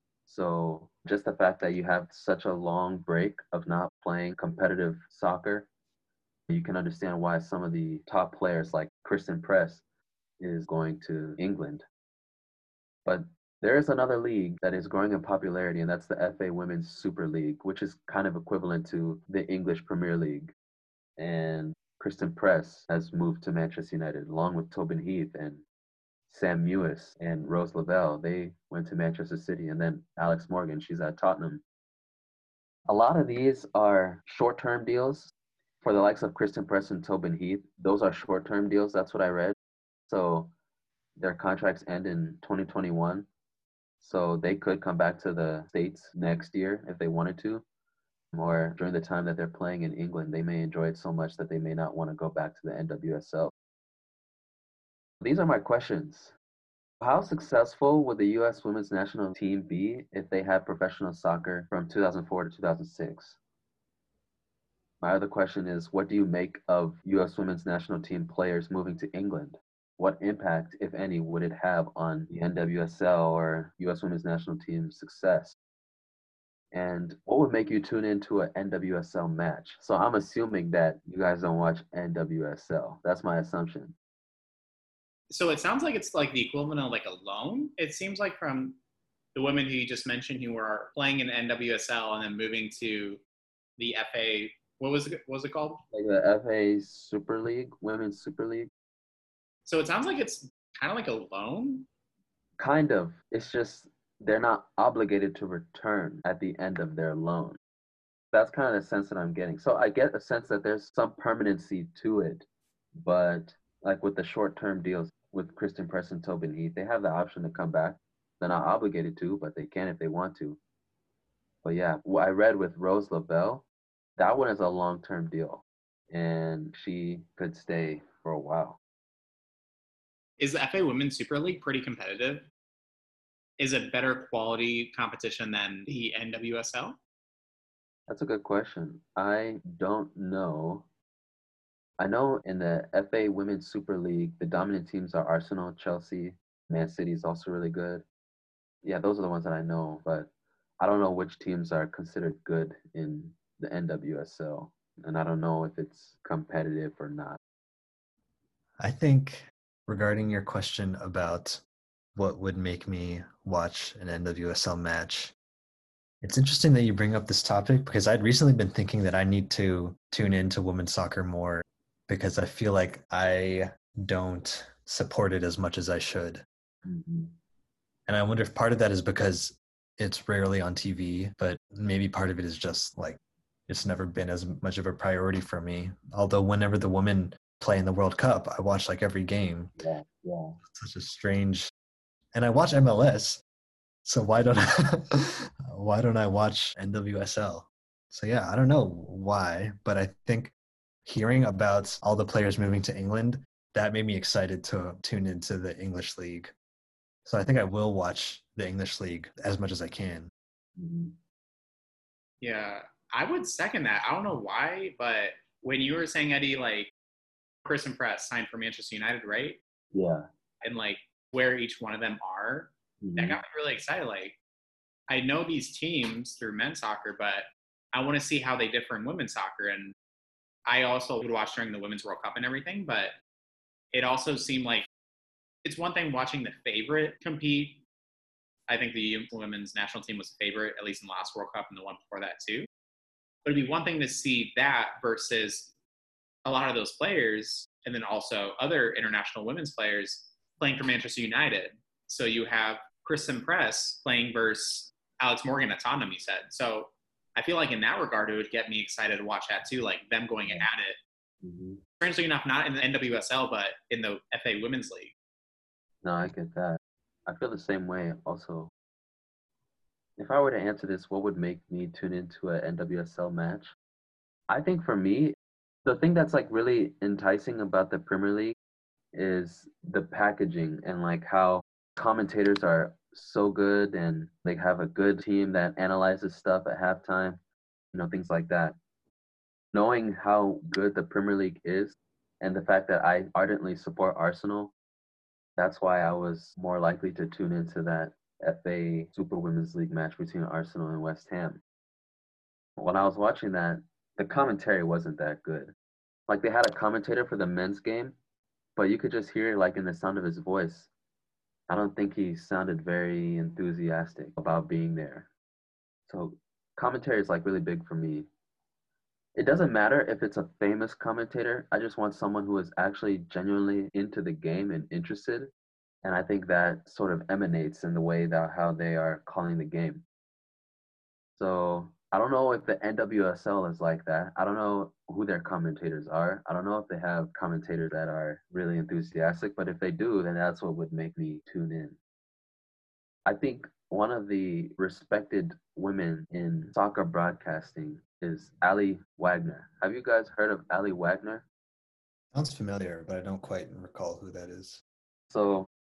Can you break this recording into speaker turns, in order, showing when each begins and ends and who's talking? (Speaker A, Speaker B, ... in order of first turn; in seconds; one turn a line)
Speaker A: 0.2-5.7
Speaker A: 6.5-9.8
Speaker A: 10.4-11.8
Speaker A: 13.1-20.5
Speaker A: 21.2-25.6
Speaker A: 26.3-31.6
Speaker A: 32.9-35.3
Speaker A: 35.8-39.5
Speaker A: 40.1-40.5
Speaker A: 41.2-43.3
Speaker A: 44.0-47.6
Speaker A: 48.3-53.5
Speaker A: 55.2-56.3
Speaker A: 57.0-63.4
Speaker A: 65.0-75.5
Speaker A: 76.7-83.9
Speaker B: 85.3-88.8
Speaker B: 89.3-93.2
Speaker B: 93.8-95.8
Speaker A: 95.9-98.7
Speaker B: 99.7-101.8
Speaker A: 102.6-107.6
Speaker A: 108.3-112.4
Speaker A: 113.0-120.6
Speaker A: 121.6-123.6
Speaker A: 124.2-128.8
Speaker B: 130.4-132.4
Speaker B: 133.6-137.0
Speaker A: 138.1-140.8
Speaker A: 142.0-148.0
Speaker A: 148.8-157.4
Speaker C: 158.8-161.6
Speaker C: 162.2-165.3
Speaker C: 166.2-176.4
Speaker A: 176.8-177.3
Speaker C: 178.1-189.8
Speaker A: 189.8-190.6
Speaker C: 190.7-191.7
Speaker C: 192.3-193.4
Speaker C: 194.0-200.5
Speaker C: 201.1-206.5
Speaker C: 207.2-210.3
Speaker A: 210.8-211.1
Speaker B: 212.4-216.9
Speaker B: 217.6-219.6
Speaker A: 219.9-220.2
Speaker B: 220.6-224.4
Speaker A: 223.0-223.4
Speaker B: 225.1-229.9
Speaker B: 230.7-233.1
Speaker B: 233.9-234.9
Speaker B: 235.6-237.8
Speaker B: 238.7-242.7
Speaker B: 243.4-245.7
Speaker B: 246.4-261.0
Speaker A: 261.4-261.8
Speaker B: 262.0-265.1
Speaker A: 266.0-268.7
Speaker A: 270.2-273.7
Speaker A: 274.5-275.3
Speaker A: 275.9-278.5
Speaker A: 279.1-287.4
Speaker A: 287.9-288.8
Speaker A: 289.7-294.7
Speaker A: 295.6-301.6
Speaker A: 302.8-305.7
Speaker A: 306.3-308.1
Speaker A: 308.8-310.9
Speaker A: 311.7-315.3
Speaker A: 316.1-318.3
Speaker A: 319.4-325.5
Speaker A: 326.0-330.0
Speaker A: 331.4-341.9
Speaker A: 343.2-351.4
Speaker C: 352.3-354.8
Speaker A: 355.3-355.7